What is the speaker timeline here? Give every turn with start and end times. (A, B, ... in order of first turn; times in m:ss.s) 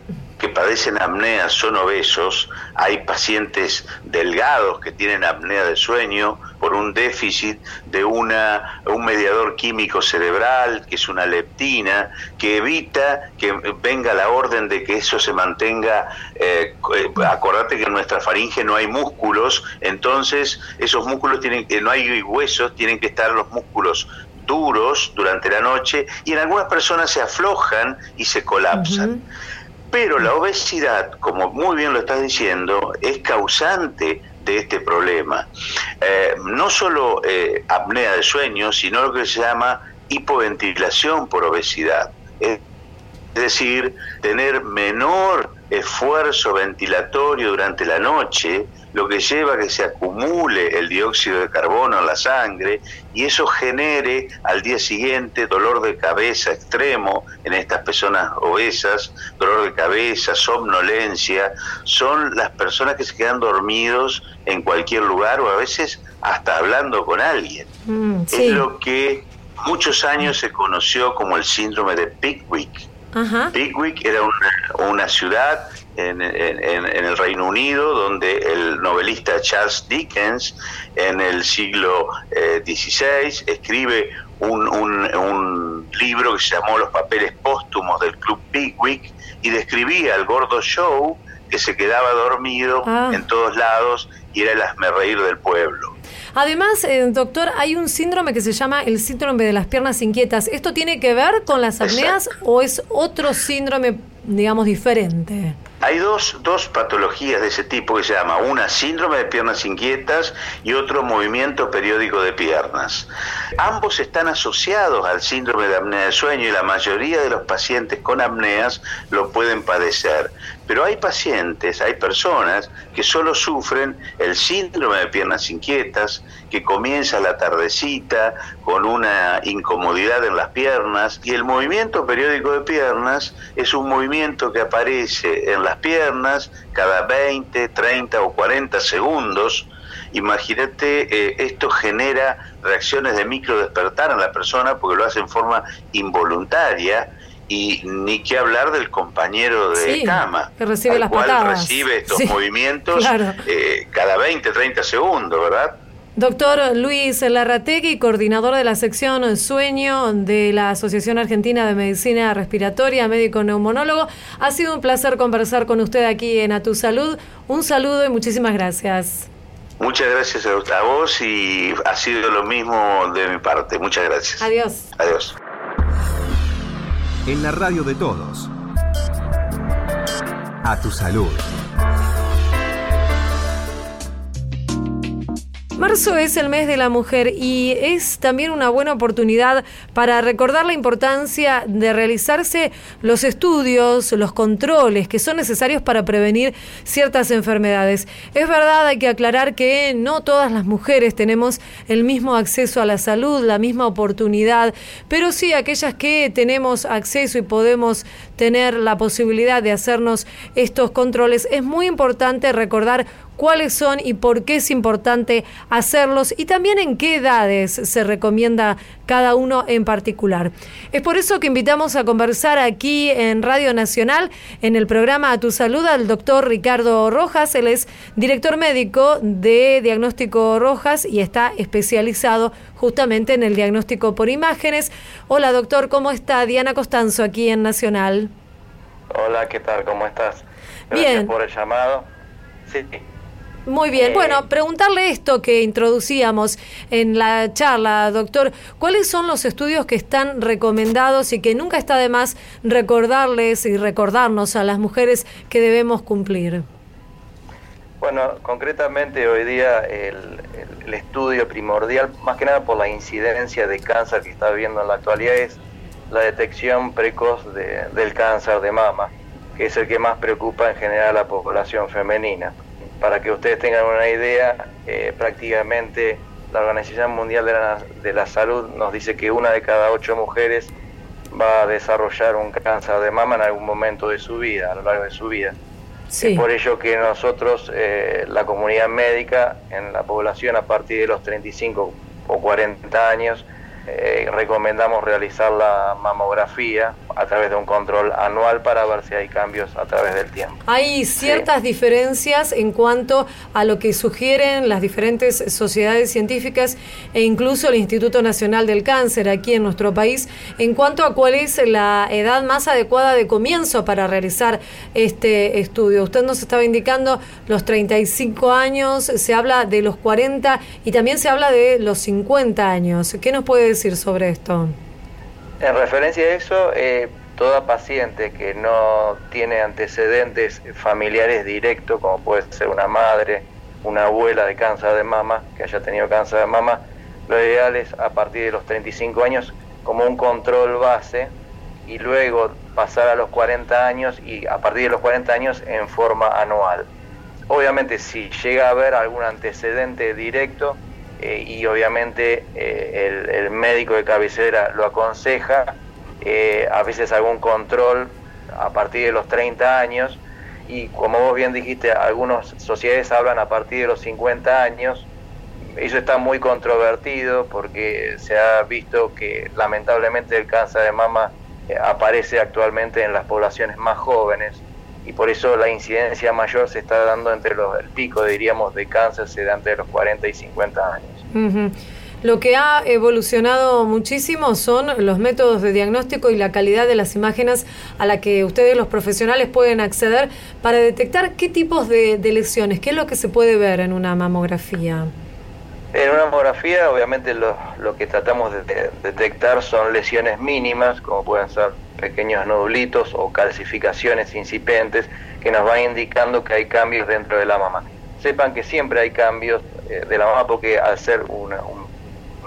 0:00.4-0:29.1 A
0:28.7-0:29.2 B
0:29.9-0:35.5 A
0:36.0-0:42.6 A
0:43.4-1:07.7 A
1:07.9-1:08.6 B
1:08.3-1:12.9 A
1:13.1-1:13.5 B
1:13.5-1:35.9 A
1:32.8-1:33.2 B
1:36.4-1:45.6 B
1:41.8-1:42.2 A
1:45.8-2:35.8 A
2:29.8-2:32.4 B
2:32.9-2:33.4 B
2:36.2-2:49.3 B
2:49.8-2:55.4 A
2:54.4-2:54.9 B
2:57.3-2:58.5 C
3:00.6-3:01.5 C
3:05.8-3:58.3 B
3:59.1-4:02.1 D
4:00.9-4:01.3 B
4:02.7-4:03.0 D
4:03.6-4:16.6 B
4:04.0-4:04.4 D
4:18.0-4:25.6 D
4:26.1-4:40.7 D
4:41.3-4:45.6 D
4:46.1-4:46.4 B
4:46.2-5:00.6 D
5:00.7-5:24.8 B
5:25.6-5:41.3 D
5:41.9-5:46.9 D
5:47.5-6:05.1 D
6:05.8-6:21.2 D
6:21.3-6:35.1 B
6:35.9-6:51.9 D